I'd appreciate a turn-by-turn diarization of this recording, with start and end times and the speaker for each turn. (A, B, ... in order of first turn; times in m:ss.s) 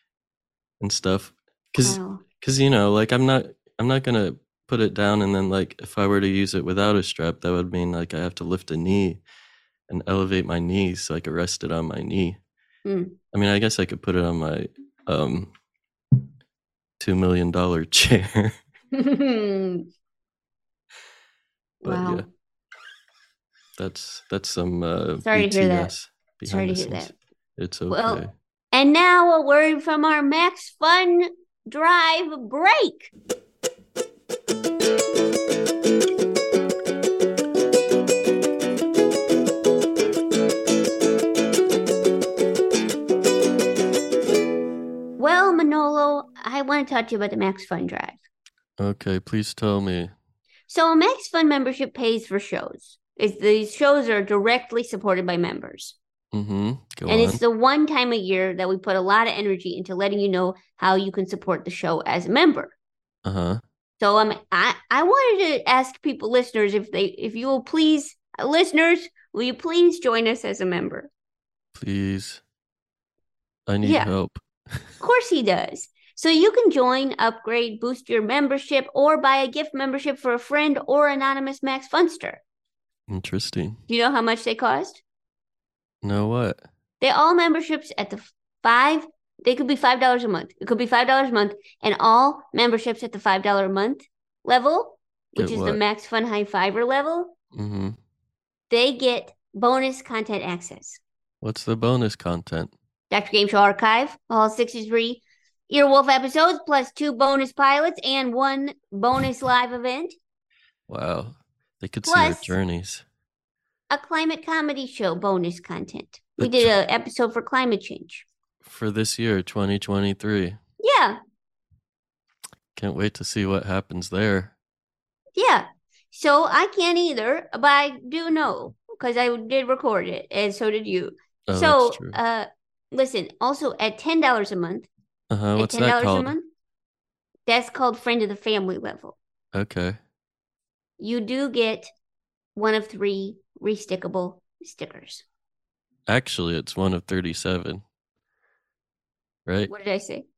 0:00.8-0:09.2 A
0:01.8-0:02.2 B
0:09.9-0:12.4 A
0:12.8-0:13.2 B
0:13.3-0:15.5 A
0:17.0-0:18.6 A
0:18.9-0:19.9 B
0:21.8-0:22.3 B
0:21.8-0:22.3 A
0:23.8-0:28.3 A
0:25.2-0:25.9 B
0:26.4-0:27.1 B
0:27.9-0:33.1 B
0:45.2-0:48.2 B
0:48.8-0:50.1 A
0:50.7-0:56.0 B
0:56.3-0:57.4 A
0:57.1-1:02.7 B
1:03.2-1:03.6 A
1:04.0-1:11.1 B
1:11.7-1:12.4 A
1:13.7-1:14.8 A
1:13.8-1:14.1 B
1:15.0-1:22.4 B
1:23.1-1:23.8 A
1:23.9-1:25.0 B
1:26.0-1:26.6 A
1:27.0-1:37.3 B
1:35.4-1:35.8 A
1:37.5-1:38.0 A
1:38.7-1:41.0 B
1:41.4-1:42.7 A
1:43.1-1:50.2 B
1:50.9-1:53.0 A
1:52.0-1:52.6 B
1:53.9-1:58.2 B
1:56.4-1:56.7 A
1:58.6-2:00.6 A
2:00.8-2:01.2 B
2:02.7-2:04.5 A
2:05.4-2:14.9 B
2:11.5-2:12.2 A
2:15.3-2:16.4 A
2:15.6-2:16.5 B
2:17.5-2:19.2 B
2:19.5-2:20.0 A
2:21.0-2:21.9 B
2:22.6-2:25.2 B
2:26.1-2:27.8 A
2:29.4-2:29.7 A
2:29.7-2:30.2 B